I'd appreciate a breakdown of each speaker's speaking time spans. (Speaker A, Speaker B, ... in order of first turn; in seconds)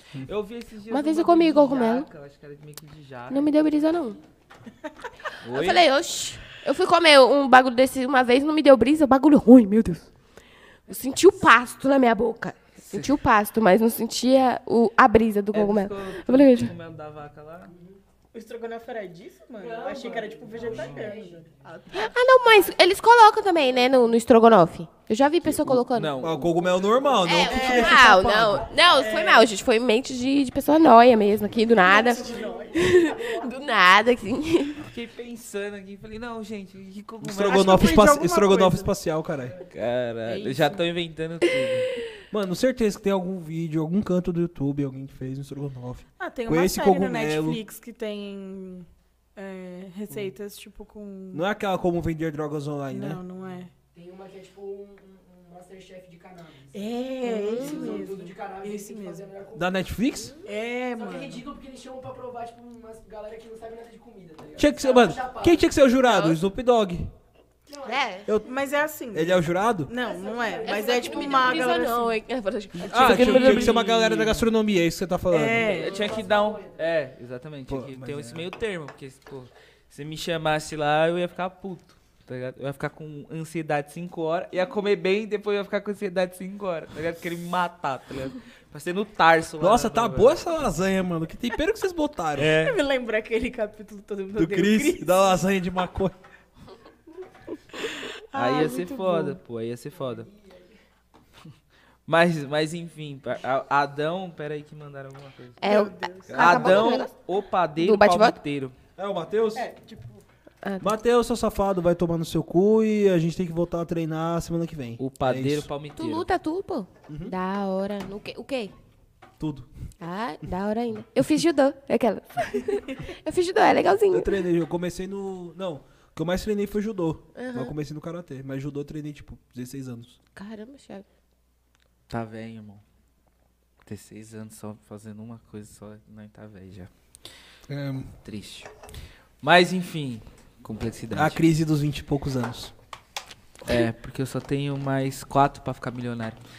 Speaker A: 0.2-3.7, 5.4-5.8, 12.8-13.1, 15.5-17.7, 20.6-21.1, 25.4-26.5, 34.8-37.9, 39.7-41.9, 72.8-74.3, 75.6-90.4, 92.3-92.8, 98.3-100.3, 102.1-105.7, 106.3-108.8, 115.0-116.3, 132.1-132.8, 133.8-136.9, 138.2-138.7, 139.4-141.5, 143.6-146.4
Speaker B: 0.9-2.1, 3.3-4.2, 5.5-10.1, 10.9-16.7, 21.9-26.1, 27.2-34.8, 57.2-58.0, 66.0-66.4, 67.8-68.4, 70.6-74.2, 75.8-76.2, 105.6-107.1, 107.8-108.3, 110.6-110.9, 116.0-118.7, 120.0-124.4, 127.3-127.7, 130.3-131.1
Speaker C: 17.7-18.0, 19.6-21.9, 26.5-29.1, 31.7-33.6, 53.8-59.8, 60.9-65.7, 67.7-68.2, 69.9-71.9, 75.7-76.8, 99.9-100.8
Speaker D: 18.3-22.1, 27.5-28.3, 28.9-29.5, 31.9-32.8, 37.5-38.9, 40.3-40.8, 46.2-51.4, 52.9-53.7, 56.7-59.2, 60.4-61.4, 68.4-72.1, 75.3-76.0, 92.6-95.4, 98.3-99.4, 105.6-106.5, 109.5-110.2
Speaker E: 26.2-28.1, 37.2-39.5, 42.3-47.6, 51.3-53.2, 59.5-60.3, 64.6-67.1, 69.1-69.9, 72.8-75.8, 77.7-78.5, 89.6-92.6, 94.4-96.1, 106.4-106.9, 109.0-109.7, 110.8-115.7, 117.1-117.3, 119.4-119.7, 124.1-130.2, 137.7-138.1, 141.1-142.7